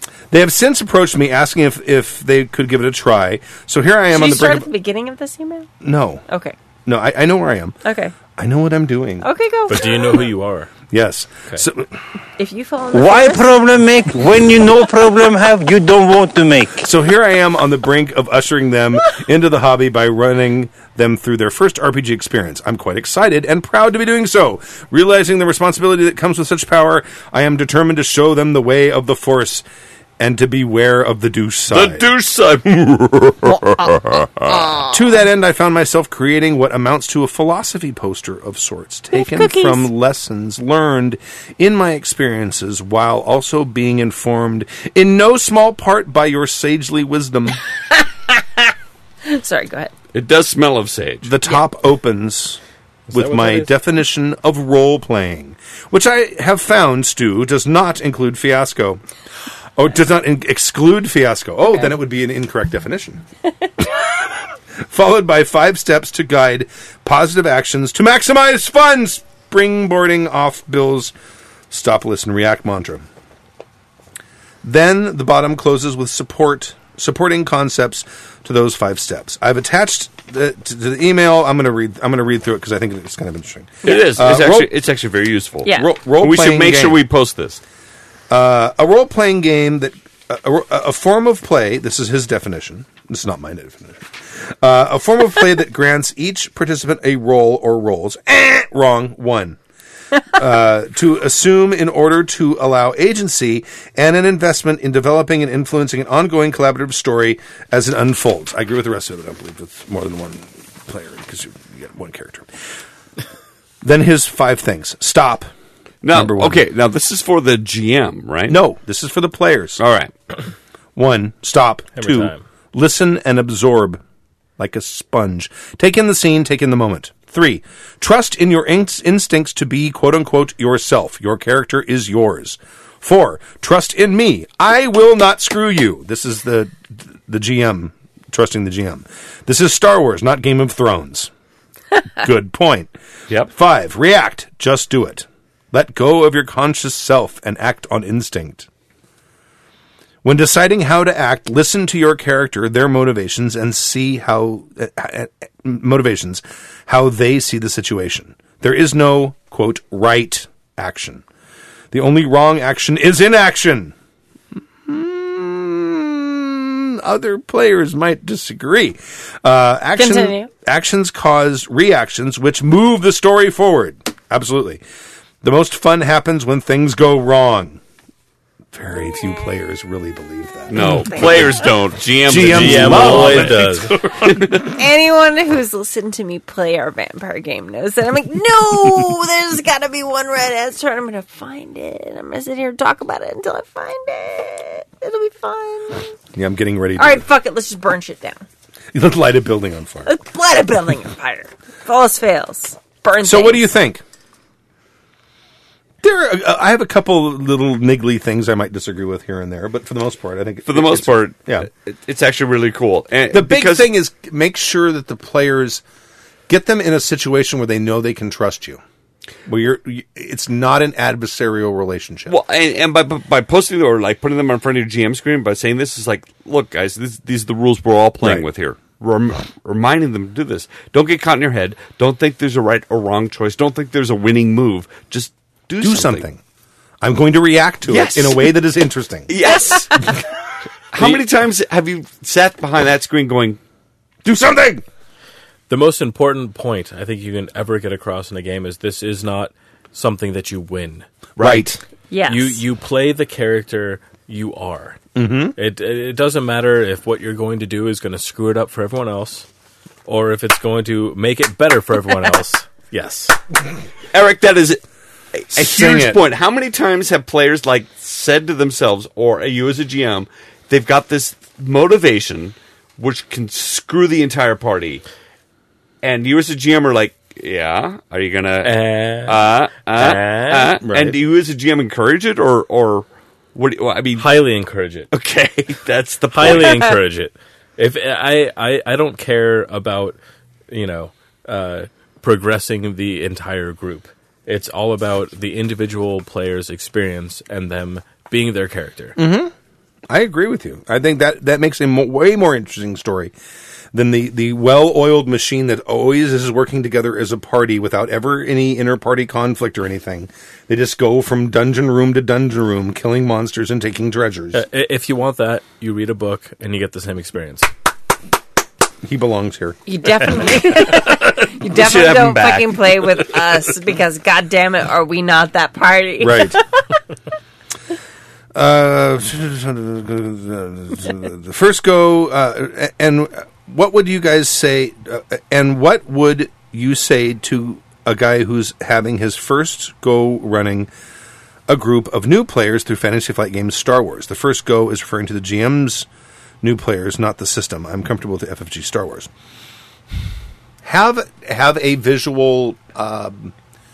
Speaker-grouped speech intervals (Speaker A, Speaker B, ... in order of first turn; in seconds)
Speaker A: 0.3-4.7, 5.8-6.2, 6.8-7.8, 8.3-9.3, 10.9-11.9, 16.8-29.6, 30.2-32.0, 34.9-47.6, 51.2-52.6, 53.1-59.0, 59.8-63.2, 64.8-71.1, 71.7-73.0, 74.6-84.7, 85.7-87.0, 88.3-99.6, 100.3-112.5, 113.8-115.5, 116.1-116.6, 118.5-119.8, 121.0-124.0, 124.6-141.3, 142.2-142.9, 143.5-148.7, 150.2-161.2, 161.9-163.9, 164.8-174.8, 175.4-177.8, 178.7-181.6, 182.2-184.5, 196.3-197.2, 198.9-200.1, 203.2-204.0, 206.0-211.7, 213.3-215.8, 216.5-218.8, 219.4-222.4, 228.2-228.4, 235.8-236.4, 237.0-239.3, 244.2-244.8, 251.4-251.8, 255.2-255.6, 265.5-266.2, 299.2-299.5, 300.1-303.3, 303.9-314.6, 319.0-319.8, 326.2-326.6, 328.5-340.9, 341.7-346.1, 346.6-349.3, 350.8-353.5
Speaker B: 4.1-5.7, 6.3-6.5, 7.8-8.1, 9.2-10.3, 12.4-13.5, 34.5-34.9, 39.1-39.9, 47.9-48.7, 49.2-49.9, 170.0-170.5, 181.1-181.4, 184.7-196.1, 196.9-198.4, 200.1-203.6, 239.4-240.1, 252.1-252.6, 319.9-326.8
Speaker C: 9.7-10.7, 53.1-53.7, 122.0-122.4, 182.4-183.9, 245.7-251.1, 252.3-255.0, 255.6-259.4, 260.1-263.4, 278.6-279.4, 279.9-281.1, 284.1-285.1, 286.3-290.2, 290.7-299.1, 314.5-317.7
Speaker D: 12.9-16.8
Speaker E: 31.7-34.7, 50.1-51.3, 83.8-87.6, 116.0-118.6, 119.8-120.1, 180.7-184.7, 210.7-213.9, 222.3-236.2, 237.8-238.5, 239.3-240.0, 240.9-243.6, 251.4-251.7, 264.1-264.8, 265.3-275.0, 276.0-284.3, 285.1-286.9, 321.6-323.3